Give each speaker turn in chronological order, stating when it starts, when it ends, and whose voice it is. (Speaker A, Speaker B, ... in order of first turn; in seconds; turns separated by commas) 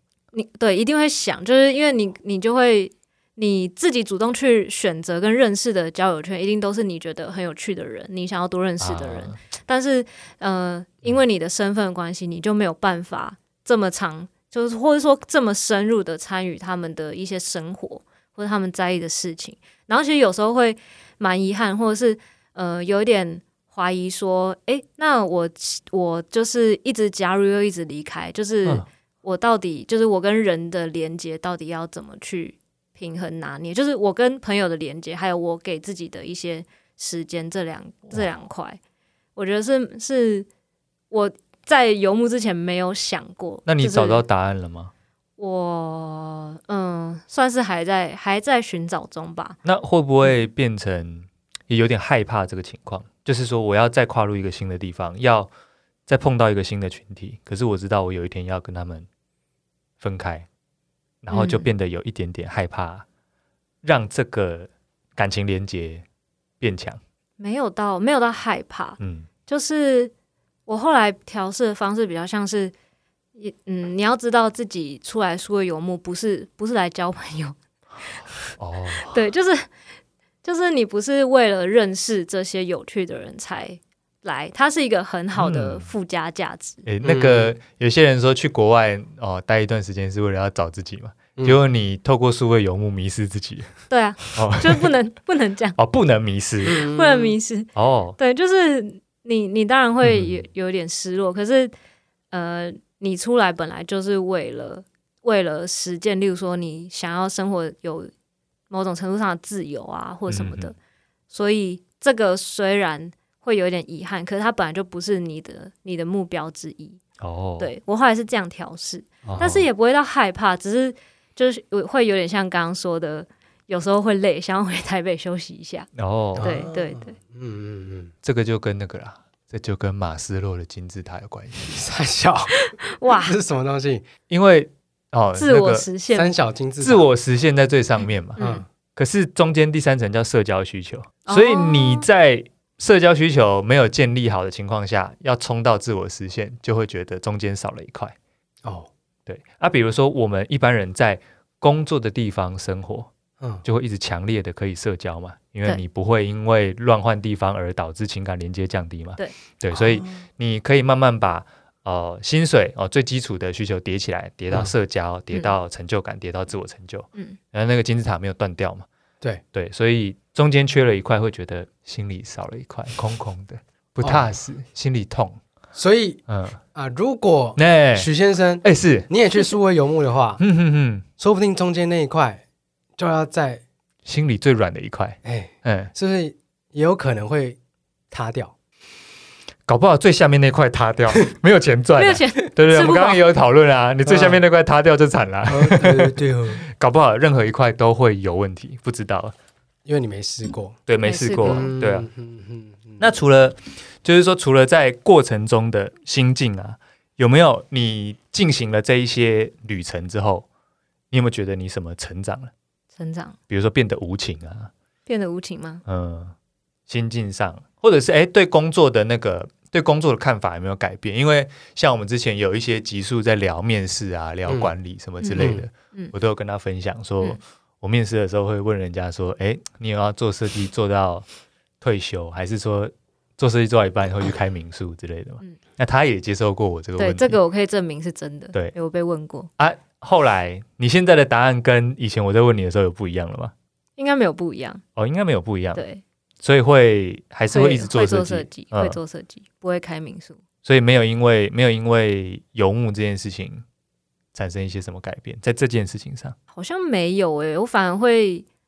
Speaker A: 0.3-38.8, Speaker B: 8.8-9.4, Speaker A: 39.4-40.5, Speaker A: 41.1-44.2, Speaker B: 43.6-44.9, Speaker A: 45.4-49.6, Speaker B: 49.6-55.5, Speaker B: 56.1-59.1, Speaker B: 60.0-60.5, Speaker B: 61.2-63.0, Speaker A: 61.3-61.6, Speaker B: 63.8-66.0, Speaker B: 66.6-67.0, Speaker A: 67.4-70.1, Speaker B: 69.0-69.3, Speaker A: 70.7-72.7, Speaker A: 73.3-77.6, Speaker B: 78.6-79.2, Speaker A: 79.0-79.7, Speaker A: 80.4-86.8, Speaker B: 85.3-85.9, Speaker B: 86.8-93.7, Speaker C: 87.0-87.5, Speaker A: 93.9-95.8, Speaker B: 94.3-94.9, Speaker B: 95.8-96.8, Speaker A: 96.6-101.7, Speaker C: 96.7-97.3, Speaker B: 97.7-98.2, Speaker B: 100.0-100.4, Speaker A: 102.3-108.1, Speaker A: 108.7-110.7, Speaker B: 110.3-110.7, Speaker A: 111.3-117.0, Speaker B: 117.2-117.7, Speaker A: 117.6-127.2, Speaker B: 119.2-119.7, Speaker B: 125.9-126.6, Speaker C: 126.3-128.1, Speaker B: 128.2-131.8, Speaker C: 131.7-134.0, Speaker A: 132.6-133.3, Speaker B: 134.3-135.9, Speaker A: 135.3-136.3, Speaker C: 136.1-137.1, Speaker B: 136.8-148.2, Speaker A: 138.4-138.6, Speaker C: 138.4-138.7, Speaker A: 141.2-142.1, Speaker C: 148.6-148.9, Speaker B: 149.2-153.1, Speaker B: 153.6-168.8, Speaker C: 159.7-160.2, Speaker B: 169.5-175.4, Speaker C: 174.0-174.3, Speaker C: 175.7-176.2, Speaker B: 176.3-176.6, Speaker C: 176.7-180.4, Speaker B: 177.6-178.1, Speaker B: 178.6-179.1, Speaker B: 180.4-181.0, Speaker C: 181.2-182.4, Speaker C: 183.0-183.6, Speaker B: 184.0-185.9, Speaker C: 185.2-187.6, Speaker C: 188.1-188.5, Speaker B: 189.7-199.3, Speaker A: 191.9-193.2, Speaker C: 194.0-194.4, Speaker C: 195.5-196.7, Speaker C: 199.8-200.8, Speaker B: 200.9-202.1, Speaker A: 201.0-201.7, Speaker C: 201.4-203.0, Speaker B: 203.0-210.4, Speaker B: 211.1-212.5, Speaker A: 213.0-213.3, Speaker B: 213.5-214.7, Speaker A: 215.1-215.8, Speaker B: 215.8-216.3, Speaker B: 216.9-231.2, Speaker A: 225.2-226.1, Speaker C: 225.3-225.7, Speaker B: 231.8-237.4, Speaker A: 237.0-239.5, Speaker B: 239.6-243.5, Speaker A: 244.0-244.8, Speaker B: 244.9-245.8, Speaker A: 245.7-246.0, Speaker B: 246.4-249.0, Speaker A: 247.5-250.4, Speaker B: 250.6-253.6, Speaker B: 254.3-256.4, Speaker A: 256.5-258.4